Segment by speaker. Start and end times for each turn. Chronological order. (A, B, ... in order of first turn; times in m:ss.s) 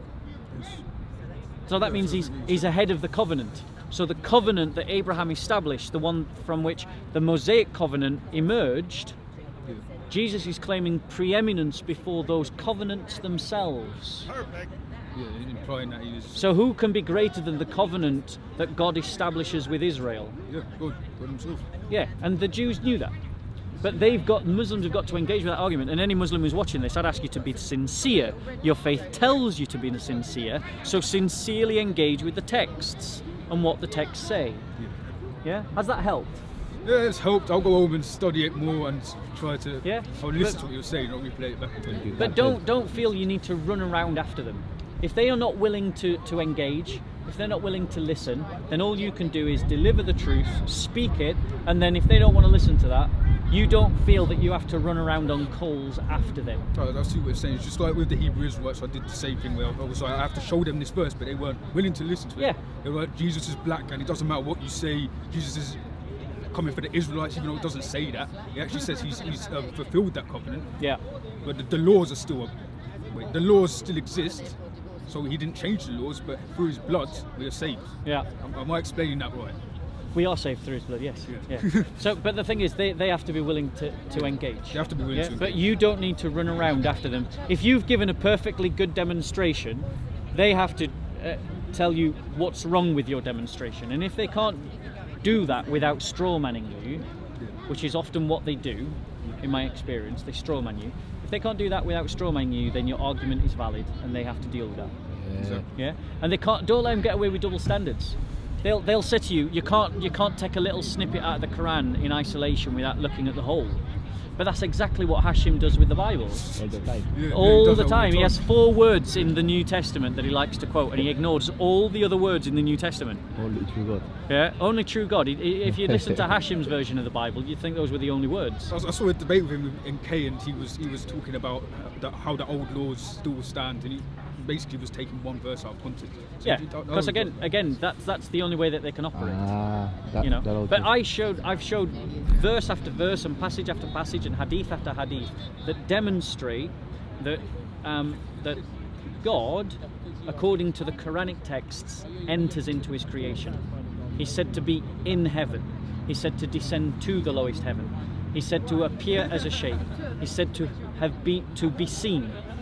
0:00.5-0:00.8 A
0:01.7-0:09.2 B
0:01.8-0:02.7 A
0:10.1-0:14.3 B
0:15.1-0:16.4 A
0:16.3-0:20.4 B
0:20.5-0:21.7 A
0:21.9-0:23.1 B
0:23.8-0:34.6 B
0:35.4-0:36.4 B
0:36.8-0:42.3 A
0:39.8-0:40.6 B
0:41.9-0:42.6 C
0:42.1-0:56.6 B
0:56.7-1:05.8 A
1:06.5-1:10.8 A
1:11.4-1:12.5 A
1:13.1-1:19.6 A
1:20.1-1:37.0 B
1:21.3-1:21.9 A
1:24.1-1:25.7 A
1:37.7-1:44.9 B
1:45.1-1:45.6 C
1:45.4-1:45.6 A
1:45.7-1:53.8 B
1:54.4-1:56.6 B
1:56.4-1:58.4 A
1:56.5-1:57.1 C
1:57.3-2:03.2 B
2:03.3-2:04.1 C
2:04.3-2:08.7 B
2:05.7-2:06.2 C
2:08.7-2:17.4 A
2:16.4-2:19.6 B
2:19.1-2:20.9 C
2:20.2-2:28.6 B
2:29.2-2:33.6 B
2:34.2-2:42.4 B